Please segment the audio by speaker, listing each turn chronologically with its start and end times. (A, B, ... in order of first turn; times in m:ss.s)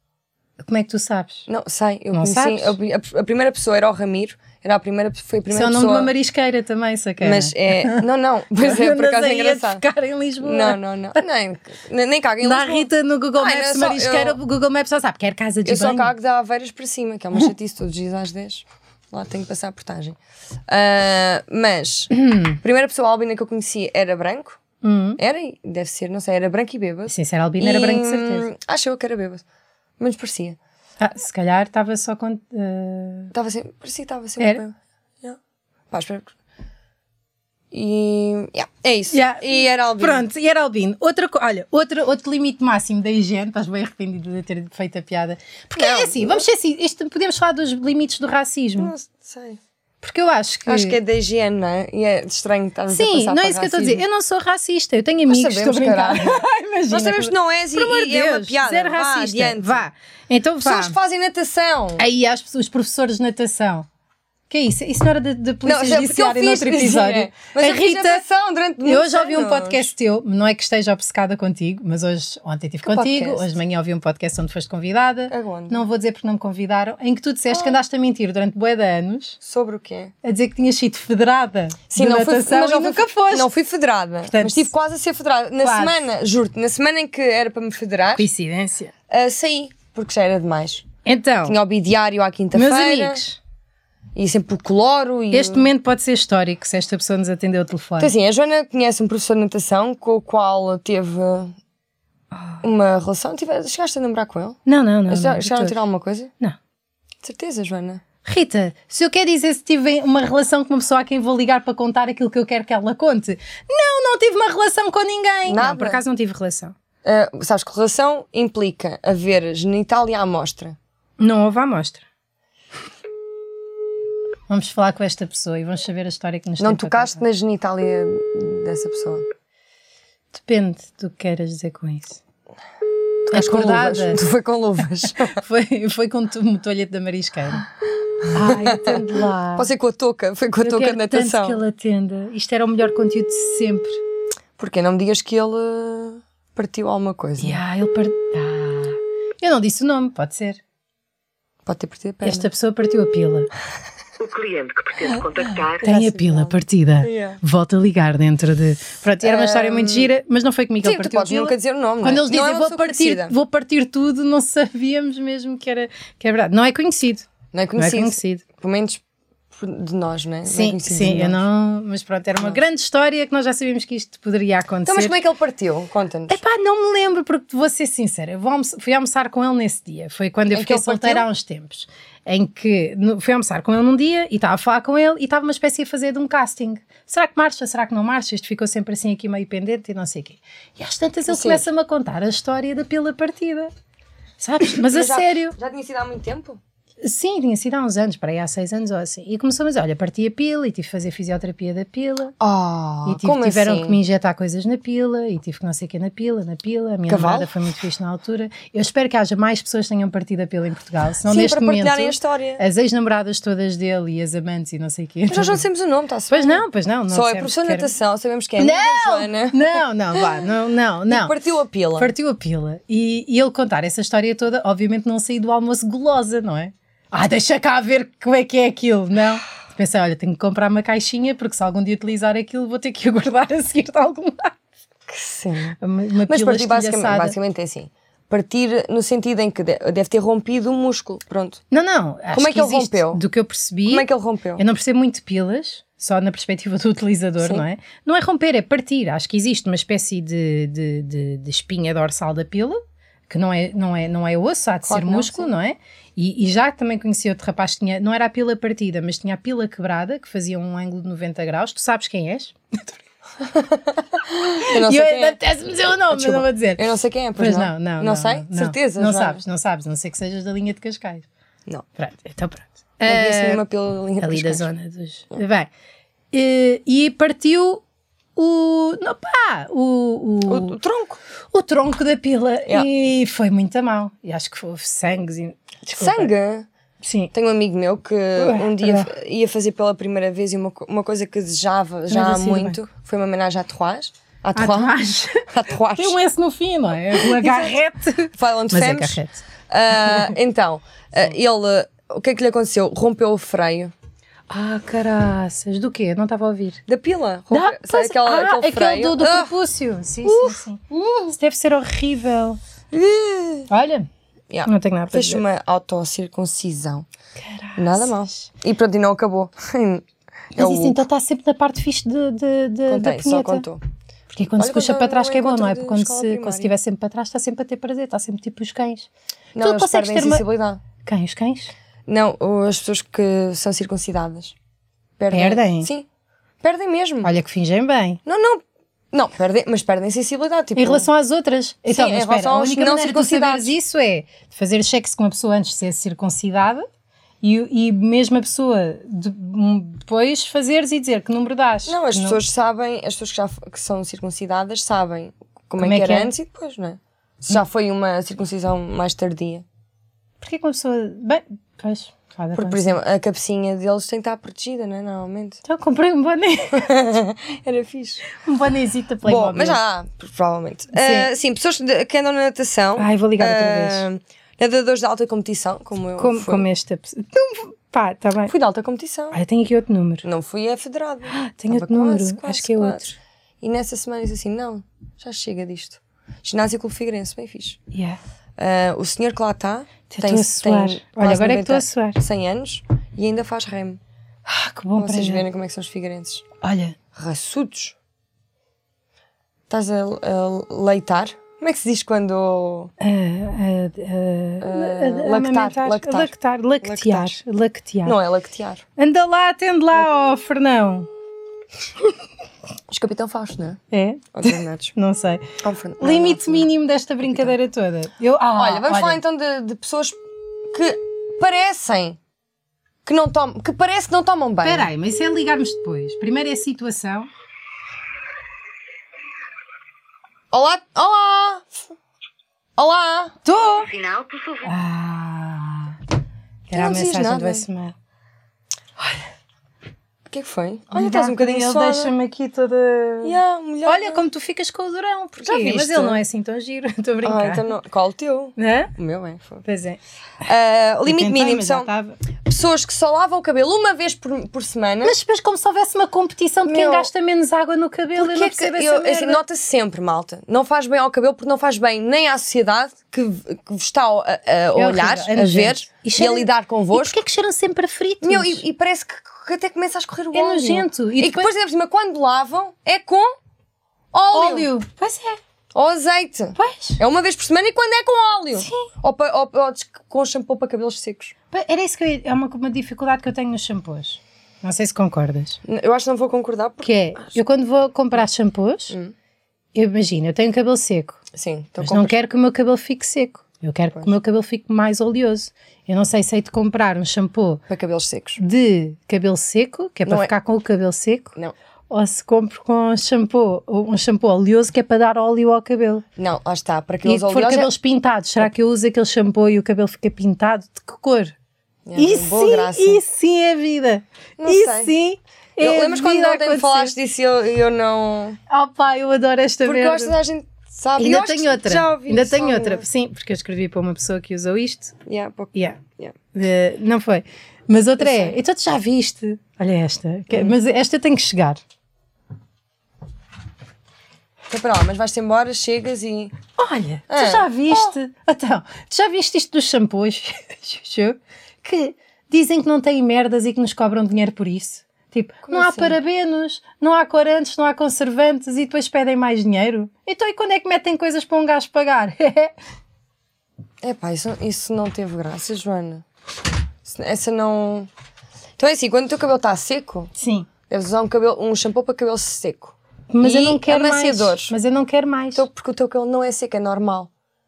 0:00.6-0:01.5 A
0:01.5-0:06.1 B
0:02.1-0:02.8 A
0:05.5-0:08.0 A
0:07.2-0:09.8 B
0:08.6-0:11.2 A
0:10.4-0:14.4 B
0:12.4-0:16.1 A
0:15.6-0:24.6 B
0:22.1-0:22.6 A
0:24.8-0:25.2 A
0:25.2-0:29.4 B
0:27.1-0:28.5 A
0:30.0-0:30.6 B
0:31.0-0:33.3 A
0:33.3-0:35.4 B
0:35.9-0:36.3 B
0:37.7-0:40.2 B
0:39.1-0:48.9 A
0:45.8-0:46.4 B
0:48.8-0:49.6 B
0:50.0-0:51.0 A
0:50.6-0:54.0 B
0:52.9-1:00.9 A
0:55.3-0:59.8 B
1:00.6-1:02.0 B
1:02.0-1:03.9 A
1:04.5-1:08.2 A
1:05.6-1:09.9 B
1:08.8-1:19.4 A
1:12.8-1:13.5 B
1:15.3-1:15.8 B
1:17.5-1:17.8 B
1:19.4-1:20.1 B
1:20.2-1:23.5 A
1:21.9-1:28.3 B
1:24.3-1:24.7 A
1:25.6-1:26.0 A
1:28.2-1:28.9 A
1:29.1-1:30.8 B
1:31.0-1:31.6 A
1:31.4-1:33.2 B
1:32.5-1:33.4 A
1:34.2-1:35.7 B
1:35.3-1:38.1 A
1:38.0-1:41.6 B
1:42.3-1:42.6 A
1:42.6-1:46.3 B
1:44.6-1:45.8 A
1:47.2-1:48.0 B
1:48.2-1:56.7 A
1:55.4-1:56.0 B
1:57.0-2:00.8 B
2:01.2-2:02.0 A
2:04.5-2:07.2 A
2:06.6-2:09.2 B
2:10.3-2:12.2 A
2:13.3-2:15.4 B
2:13.3-2:14.2 A
2:15.2-2:17.6 A
2:18.3-2:19.7 A
2:18.4-2:19.0 B
2:19.5-2:21.6 B
2:20.6-2:24.0 A
2:24.6-2:27.6 B
2:27.4-2:30.6 A
2:31.6-2:32.5 B
2:32.2-2:33.5 A
2:34.2-2:35.8 C
2:35.0-2:37.4 B
2:35.8-2:48.4 A
2:39.2-2:40.1 B
2:40.8-2:43.3 B
2:47.5-2:49.0 B
2:49.5-2:51.4 B
2:50.4-2:55.1 A
2:54.8-2:56.4 B
2:56.3-3:13.7 A
3:00.5-3:01.2 B
3:11.3-3:11.6 B
3:14.4-3:15.5 A
3:14.6-3:16.6 B
3:17.0-3:22.3 A
3:22.4-3:24.0 B
3:23.0-3:35.6 A
3:27.1-3:27.5 B
3:31.3-3:32.6 B
3:35.3-3:39.6 B
3:36.3-3:37.9 A
3:38.6-3:41.3 A
3:41.1-3:42.1 B
3:42.0-3:54.5 A
3:55.1-4:01.6 B
3:55.8-3:57.4 A
4:01.7-4:23.0 A
4:02.3-4:03.2 B
4:03.9-4:04.6 B
4:14.8-4:15.5 B
4:23.4-4:25.4 B
4:24.6-4:31.3 A
4:26.1-4:29.4 B
4:32.0-4:33.6 A
4:33.0-4:34.7 B
4:34.2-4:35.7 A
4:36.3-4:37.8 A
4:38.4-4:40.8 A
4:40.5-4:41.2 B
4:41.5-4:46.3 A
4:45.9-4:46.7 B
4:47.0-4:47.3 A
4:47.3-4:54.9 B
4:48.4-4:49.1 A
4:52.1-4:52.8 A
4:54.6-4:59.4 A
4:55.5-4:56.2 B
4:57.1-4:57.7 B
4:58.3-5:03.9 B
5:00.0-5:00.3 A
5:04.5-5:06.8 A
5:06.9-5:09.5 B
5:07.5-5:12.6 A
5:10.2-5:11.3 B
5:12.9-5:13.7 B
5:13.7-5:14.1 A
5:14.5-5:17.0 B
5:14.6-5:15.4 A
5:17.4-5:18.5 A
5:17.8-5:21.0 B
5:20.6-5:23.6 A
5:22.9-5:23.8 B
5:24.3-5:30.4 A
5:24.6-5:26.7 B
5:29.5-5:30.8 B
5:31.0-5:31.7 A
5:32.1-5:34.5 B
5:35.2-5:36.1 B
5:35.3-5:35.9 A
5:36.6-5:37.3 B
5:37.2-5:38.2 A
5:38.2-5:41.1 B
5:40.8-5:46.8 A
5:41.9-5:43.7 B
5:47.4-5:52.4 A
5:51.9-5:59.6 B
5:55.8-5:56.3 A
6:00.4-6:03.0 A
6:02.5-6:05.6 B
6:05.6-6:07.0 A
6:06.7-6:08.3 B
6:08.4-6:09.8 A
6:09.2-6:16.6 B
6:10.9-6:11.3 A
6:13.0-6:14.0 A
6:16.2-6:18.5 A
6:18.5-6:19.4 B
6:19.3-6:20.2 A
6:20.2-6:27.8 B
6:21.3-6:23.1 A
6:27.9-6:28.2 A
6:28.6-6:34.0 B
6:30.1-6:32.2 A
6:34.4-6:35.4 A
6:35.0-6:36.4 B
6:36.6-6:37.0 A
6:37.1-6:38.0 B
6:39.7-6:42.9 B
6:43.0-6:48.2 A
6:44.6-6:47.4 B
6:48.0-6:48.8 B
6:49.0-6:51.1 A
6:52.9-6:53.8 B
6:53.9-6:55.5 A
6:54.3-6:54.9 B
6:55.6-6:56.7 B
6:56.0-6:59.2 A
6:58.6-7:00.2 B
7:00.7-7:02.2 B
7:03.0-7:04.9 B
7:04.6-7:07.3 A
7:10.5-7:11.9 B
7:12.8-7:13.4 B
7:13.4-7:14.0 A
7:14.0-7:14.6 C
7:14.6-7:16.0 A
7:16.7-7:17.9 A
7:16.7-7:17.6 B
7:20.3-7:22.1 B
7:20.9-7:27.7 A
7:23.2-7:24.2 B
7:25.4-7:26.2 B
7:27.2-7:29.6 B
7:28.6-7:28.9 A
7:29.6-7:30.0 A
7:30.4-7:31.9 B
7:31.0-7:32.2 A
7:32.4-7:35.2 B
7:35.0-7:39.4 A
7:36.6-7:37.1 B
7:38.1-7:47.2 B
7:44.8-7:48.6 A
7:48.2-7:53.3 B
7:50.3-7:51.5 A
7:54.1-7:54.7 B
7:54.3-7:55.4 A
7:55.7-8:01.3 B
7:56.6-7:57.0 A
7:58.6-7:58.8 A
8:01.5-8:05.6 A
8:05.6-8:07.4 B
8:06.8-8:09.0 A
8:09.7-8:11.2 A
8:11.3-8:12.2 B
8:11.8-8:17.6 A
8:17.7-8:18.4 B
8:18.4-8:21.3 A
8:20.0-8:20.3 B
8:21.9-8:26.0 A
8:26.2-8:27.7 B
8:27.0-8:31.3 A
8:31.8-8:33.0 B
8:32.0-8:36.9 A
8:34.4-8:34.9 B
8:35.6-8:38.4 B
8:38.5-8:40.1 A
8:39.6-8:42.8 B
8:41.0-8:45.0 A
8:45.0-8:46.1 B
8:45.5-8:45.8 A
8:46.3-8:51.6 A
8:48.0-8:48.4 B
8:50.3-8:50.6 B
8:54.5-8:56.3 B
8:56.6-9:12.5 A
8:57.1-8:57.9 B
9:05.4-9:06.0 B
9:13.8-9:16.0 B
9:16.8-9:17.9 B
9:18.6-9:20.1 B
9:20.2-9:20.5 A
9:20.7-9:24.5 B
9:23.1-9:25.4 A
9:25.3-9:27.1 B